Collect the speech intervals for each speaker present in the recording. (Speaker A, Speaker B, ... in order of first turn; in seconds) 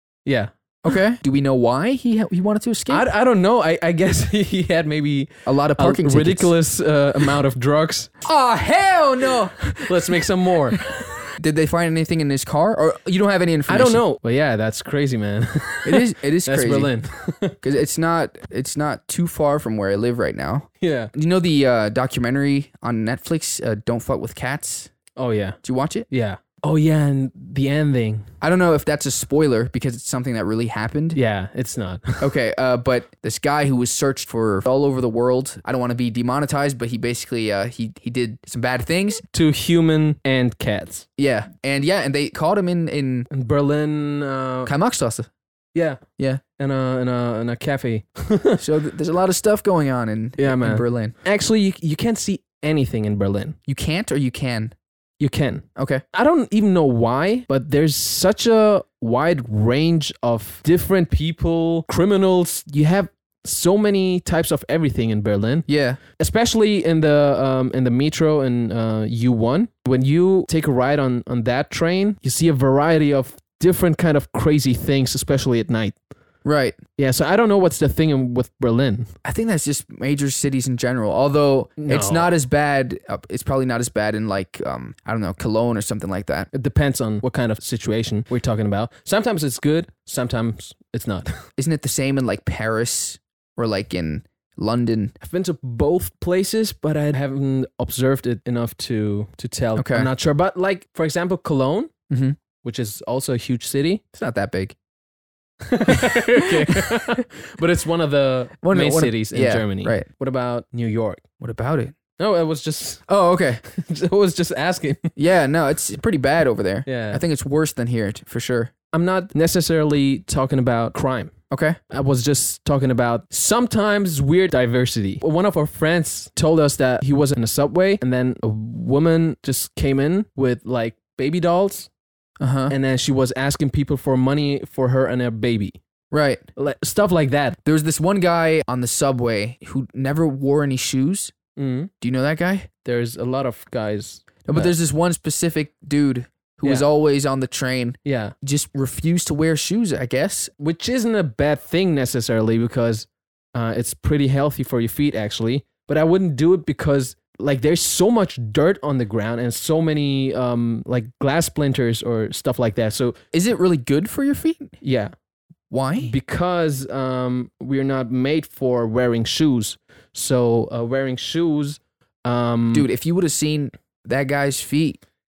Speaker A: 0.2-1.0, 2.9-8.1, 9.7-10.8, 13.7-17.6, 20.8-21.1, 25.1-25.6, 26.1-28.3, 31.1-32.3, 39.3-41.0, 43.3-44.7, 45.7-46.0, 46.6-48.6, 50.4-53.6, 55.2-76.0, 77.0-79.1, 81.8-82.4, 86.5-91.3, 95.2-101.9, 102.6-104.0, 105.7-111.2, 112.2-113.0, 113.6-115.1, 116.8-117.2, 118.9-121.3, 121.9-131.9, 132.7-135.8, 136.6-137.6, 141.6-141.9, 142.8-144.7, 146.6-146.9, 148.0-148.3, 150.6-163.2, 164.8-165.1, 166.0-172.9
Speaker B: 0.8-3.0, 5.5-6.5, 8.2-14.0, 15.8-16.9, 17.6-24.9, 25.6-26.1, 28.4-31.2, 32.2-39.2, 41.2-43.3, 44.6-45.3, 48.6-51.1, 53.7-54.7, 55.8-56.0, 65.7-66.0, 76.4-76.8, 79.2-86.5, 91.6-95.1, 99.8-100.1, 102.1-102.4, 104.1-104.8, 108.6-110.1, 111.4-111.9, 113.1-113.6, 115.2-118.7, 121.5-121.8, 132.4-132.7, 136.1-136.4, 137.6-141.3, 142.0-142.7, 144.4-150.5, 163.3-164.7, 165.7-166.1, 172.7-175.0